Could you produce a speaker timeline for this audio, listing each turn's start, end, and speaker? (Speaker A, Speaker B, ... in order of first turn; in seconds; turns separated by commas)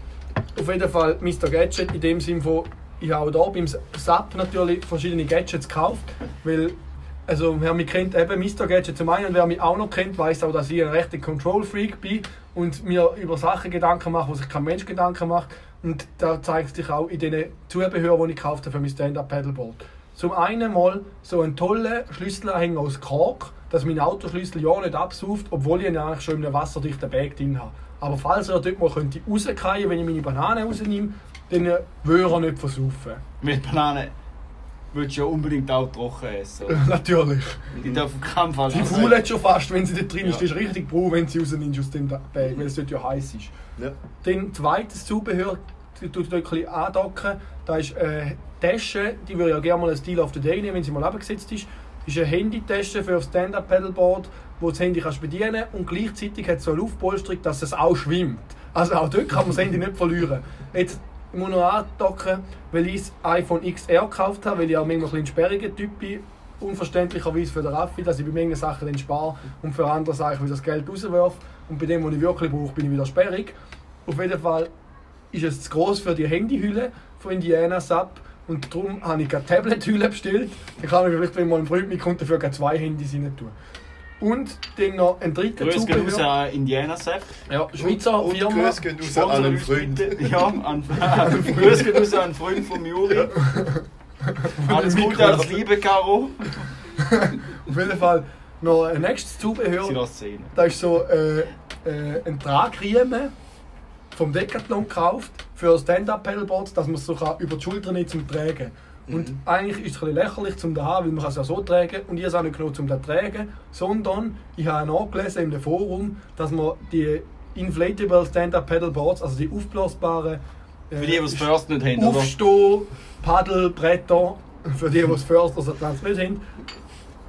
Speaker A: 0.6-6.8, Speaker A: 7.3-33.2, Speaker B: 33.4-34.1, Speaker B: 34.9-36.9, Speaker A: 36.7-37.8, Speaker C: 37.8-38.0, Speaker B: 37.8-39.2, Speaker A: 38.7-43.5, Speaker C: 38.8-39.2, Speaker A: 44.2-73.5, Speaker A: 74.1-74.7, Speaker A: 75.3-83.5, Speaker A: 84.2-86.2, Speaker B: 85.6-87.3, Speaker A: 87.5-88.8, Speaker C: 87.8-90.6, Speaker B: 89.0-93.4, Speaker A: 91.2-92.0, Speaker A: 93.3-95.6, Speaker B: 94.6-96.7, Speaker A: 97.0-100.0, Speaker B: 99.8-100.5, Speaker A: 100.5-103.3, Speaker A: 104.1-126.4, Speaker C: 109.1-109.4, Speaker B: 121.0-122.3